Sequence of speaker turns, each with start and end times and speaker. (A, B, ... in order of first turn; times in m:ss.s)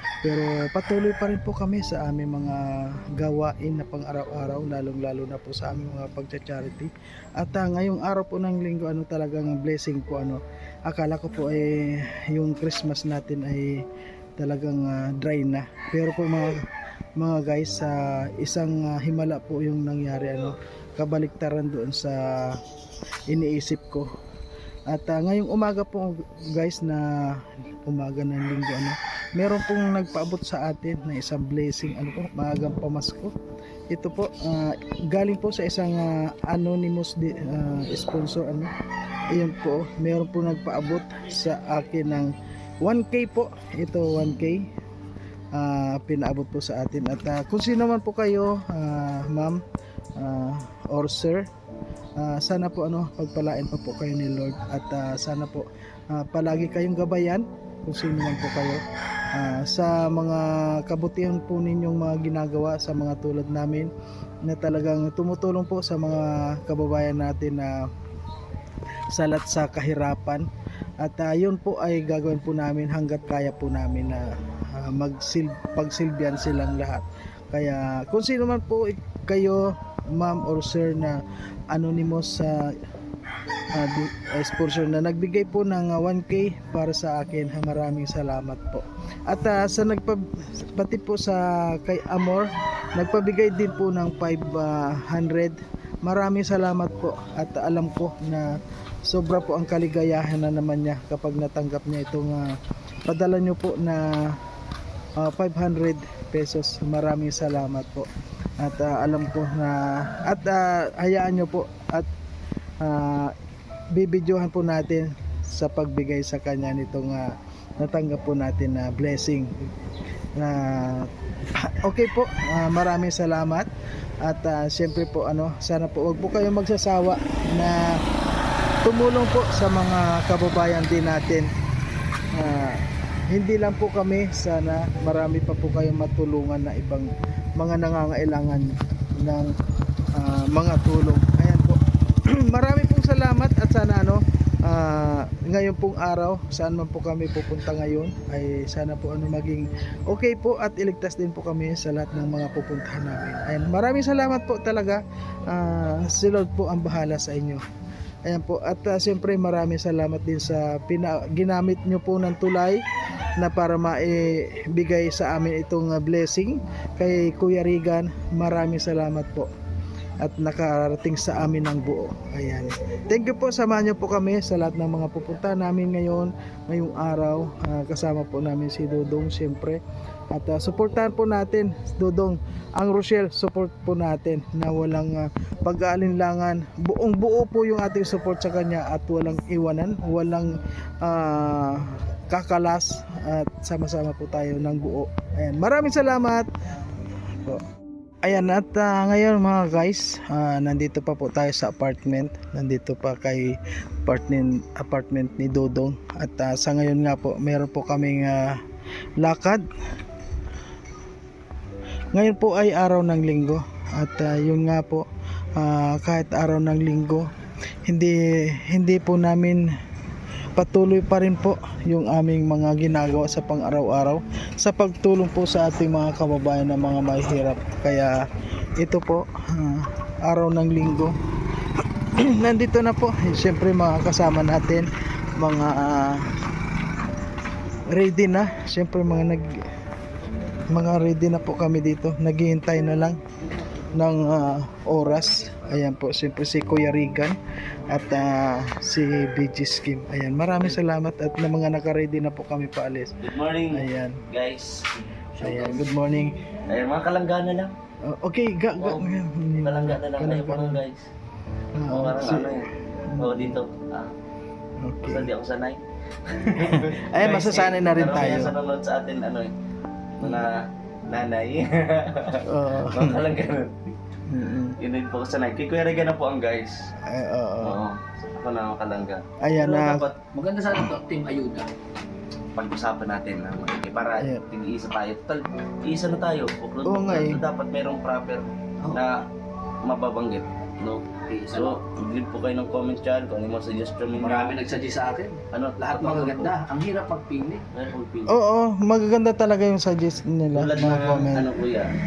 0:00.2-0:13.8 A
0:14.4-0:16.6 A
0:17.2-0:22.6 A
0:23.3-0:24.1 A
0:24.9-0:33.3 A
0:33.9-0:38.7 A
0:39.3-0:44.7 A
0:45.5-0:49.6 A
0:50.2-0:51.4 A
0:52.2-0:58.8 A
0:59.3-1:03.9 A
1:04.4-1:07.8 A
1:09.1-1:10.5 A
1:11.0-1:22.8 A
1:23.7-1:38.5 A
1:39.0-1:42.5 A
1:43.1-1:44.4 A
1:45.2-1:48.1 A
1:48.6-1:52.1 A
1:52.8-1:53.3 A
1:53.9-1:59.5 A
2:00.4-2:03.7 A
2:04.2-2:08.0 A
2:08.8-2:11.5 A
2:12.3-2:19.5 A
2:20.1-2:37.6 A
2:38.2-2:42.8 A
2:43.4-2:49.5 A
2:50.2-2:59.8 A
3:00.3-3:16.5 A
3:18.2-3:28.6 A
3:29.2-3:29.6 A
3:32.1-3:35.0 A
3:35.6-3:37.3 A
3:37.8-3:39.6 A
3:40.6-3:48.2 A
3:48.8-3:51.1 A
3:52.2-3:56.3 A
3:57.9-3:59.6 A
4:00.7-4:03.2 A
4:03.9-4:07.4 A
4:07.9-4:14.2 A
4:13.2-4:14.9 B
4:15.4-4:15.8 C
4:15.4-4:16.4 A
4:16.7-4:17.7 B
4:18.0-4:20.8 A
4:18.8-4:21.0 B
4:21.7-4:23.6 A
4:21.9-4:24.1 B
4:24.8-4:25.3 A
4:25.0-4:29.5 B
4:26.4-4:28.6 A
4:30.2-4:30.5 B
4:31.1-4:33.9 B
4:32.4-4:33.3 A
4:34.3-4:34.8 A
4:34.8-4:36.9 B
4:37.0-4:37.8 A
4:37.6-4:40.2 B
4:39.4-4:40.1 A
4:40.3-4:41.7 C
4:42.5-4:49.2 B
4:46.8-4:47.4 A
4:49.8-4:54.6 B
4:51.3-4:51.8 C
4:54.1-4:57.6 C
4:55.5-4:56.5 B
4:57.7-4:58.4 B
4:58.3-5:01.5 A
5:00.5-5:01.9 B